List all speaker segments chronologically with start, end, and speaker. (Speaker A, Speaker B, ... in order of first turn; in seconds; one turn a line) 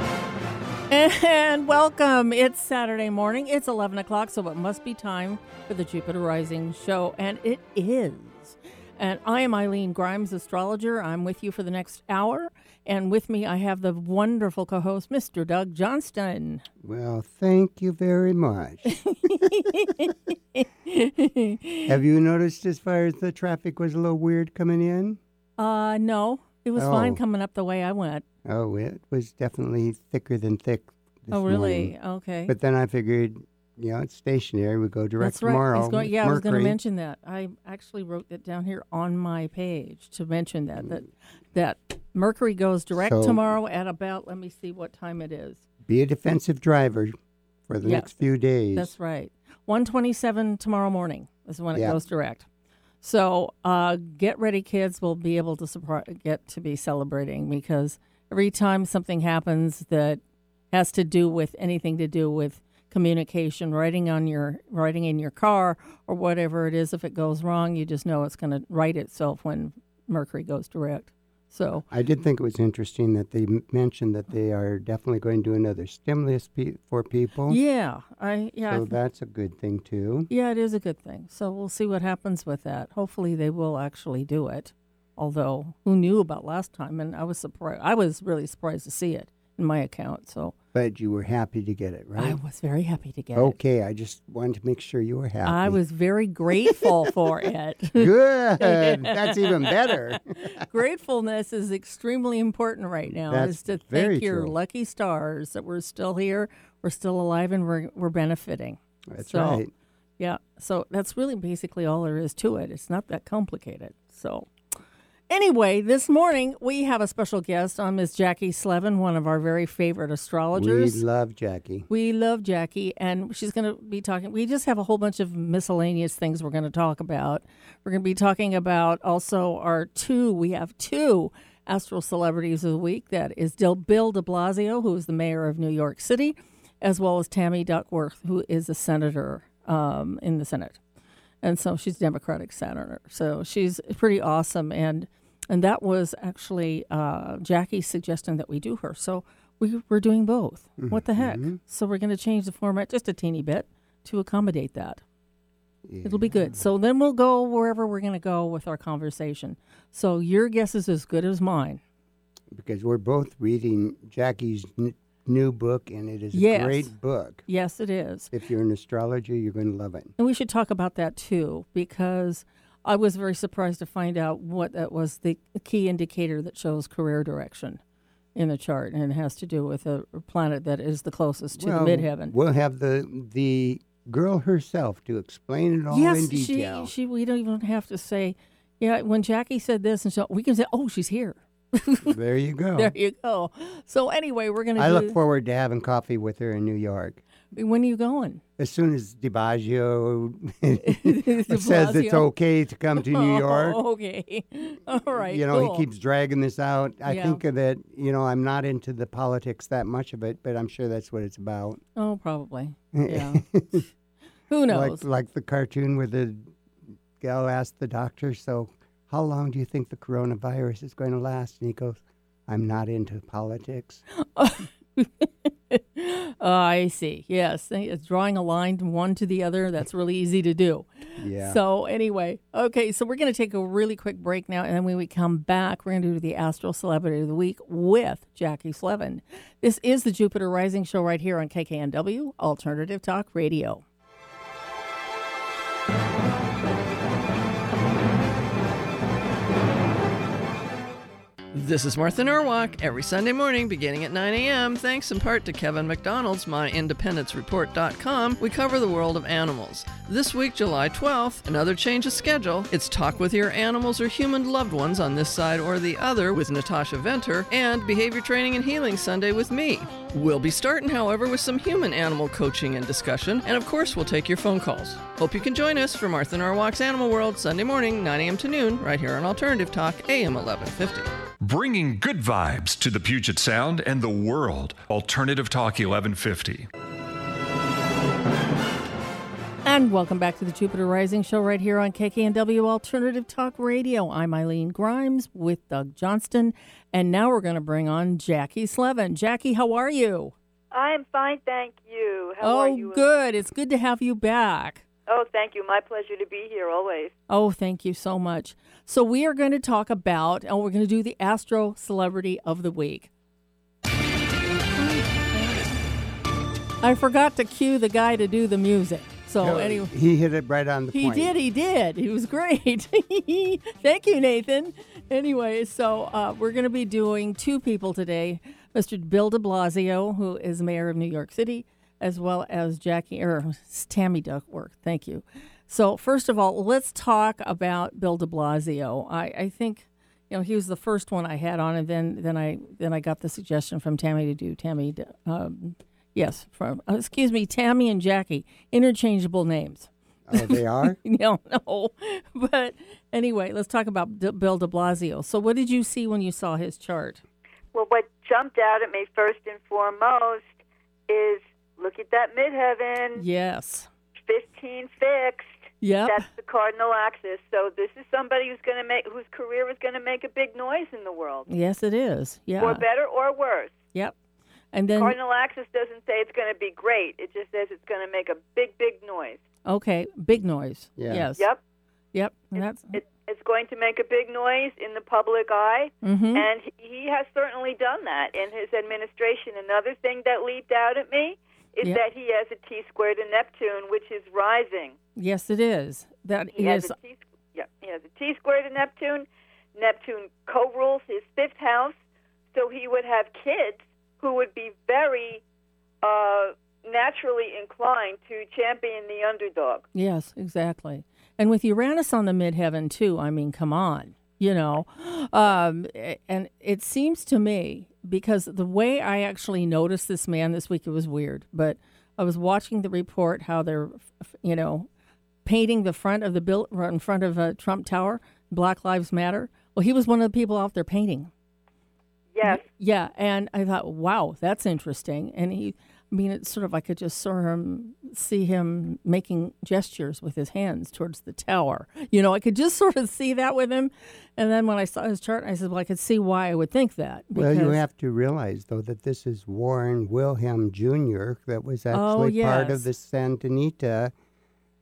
Speaker A: 0.9-16.6
Speaker B: 16.8-18.9
Speaker A: 18.9-21.9
Speaker B: 21.9-25.2
Speaker A: 25.6-28.2
Speaker B: 26.8-27.2
Speaker B: 28.4-31.9
Speaker A: 31.3-32.5
Speaker B: 32.5-36.8
Speaker A: 35.2-45.6
Speaker B: 42.9-43.4
Speaker B: 45.8-47.1
Speaker B: 47.7-48.9
Speaker A: 47.8-48.1
Speaker A: 48.7-52.5
Speaker B: 51.7-52.0
Speaker A: 53.0-60.2
Speaker A: 60.7-71.8
Speaker B: 71.9-77.6
Speaker A: 77.5-79.0
Speaker B: 78.7-80.3
Speaker A: 80.3-90.5
Speaker B: 90.7-92.4
Speaker A: 92.2-93.6
Speaker B: 93.3-95.8
Speaker A: 95.5-109.6
Speaker B: 96.7-96.9
Speaker B: 97.9-100.6
Speaker B: 103.1-104.5
Speaker B: 109.1-109.7
Speaker A: 110.2-114.5
Speaker A: 115.3-121.0
Speaker B: 120.5-121.9
Speaker A: 121.9-140.8
Speaker A: 141.4-155.0
Speaker B: 150.8-151.6
Speaker B: 155.8-156.6
Speaker A: 156.0-161.8
Speaker B: 162.5-167.4
Speaker A: 166.3-166.9
Speaker A: 167.5-168.3
Speaker B: 168.3-170.1
Speaker A: 170.2-177.8
Speaker A: 178.3-182.3
Speaker B: 181.6-186.9
Speaker A: 185.9-192.1
Speaker B: 192.0-192.9
Speaker A: 192.8-195.2
Speaker B: 194.8-197.2
Speaker A: 197.5-198.4
Speaker B: 198.6-203.8
Speaker A: 200.8-202.3
Speaker A: 203.0-205.8
Speaker B: 205.1-211.8
Speaker A: 207.1-207.4
Speaker A: 211.9-213.4
Speaker B: 212.9-213.9
Speaker A: 214.5-215.0
Speaker B: 214.7-216.5
Speaker B: 217.2-224.0
Speaker A: 224.2-243.8
Speaker B: 231.2-231.6
Speaker C: 251.5-281.1
Speaker D: 281.4-286.7
Speaker A: 289.6-300.3
Speaker E: 300.7-303.1
Speaker A: 302.4-304.8
Speaker E: 305.1-307.1
Speaker A: 307.3-313.1
Speaker A: 314.8-315.8
Speaker A: 316.8-319.9
Speaker B: 319.4-321.4
Speaker A: 320.9-357.2
Speaker B: 350.3-351.0
Speaker E: 357.7-360.5
Speaker E: 361.1-363.2
Speaker A: 363.1-363.9
Speaker E: 364.3-365.5
Speaker A: 365.8-366.2
Speaker E: 366.1-371.5
Speaker A: 371.5-372.8
Speaker E: 372.6-373.8
Speaker A: 374.7-375.1
Speaker E: 374.9-379.4
Speaker A: 379.6-381.4
Speaker B: 381.0-381.3
Speaker A: 382.1-383.0
Speaker E: 382.9-394.9
Speaker A: 386.0-386.4
Speaker A: 395.1-396.9
Speaker E: 396.6-401.9
Speaker E: 402.5-405.4
Speaker E: 406.0-409.9
Speaker A: 409.9-424.9
Speaker A: 425.4-431.3
Speaker E: 432.3-432.6
Speaker A: 432.4-447.8
Speaker B: 447.3-454.1
Speaker A: 451.9-452.9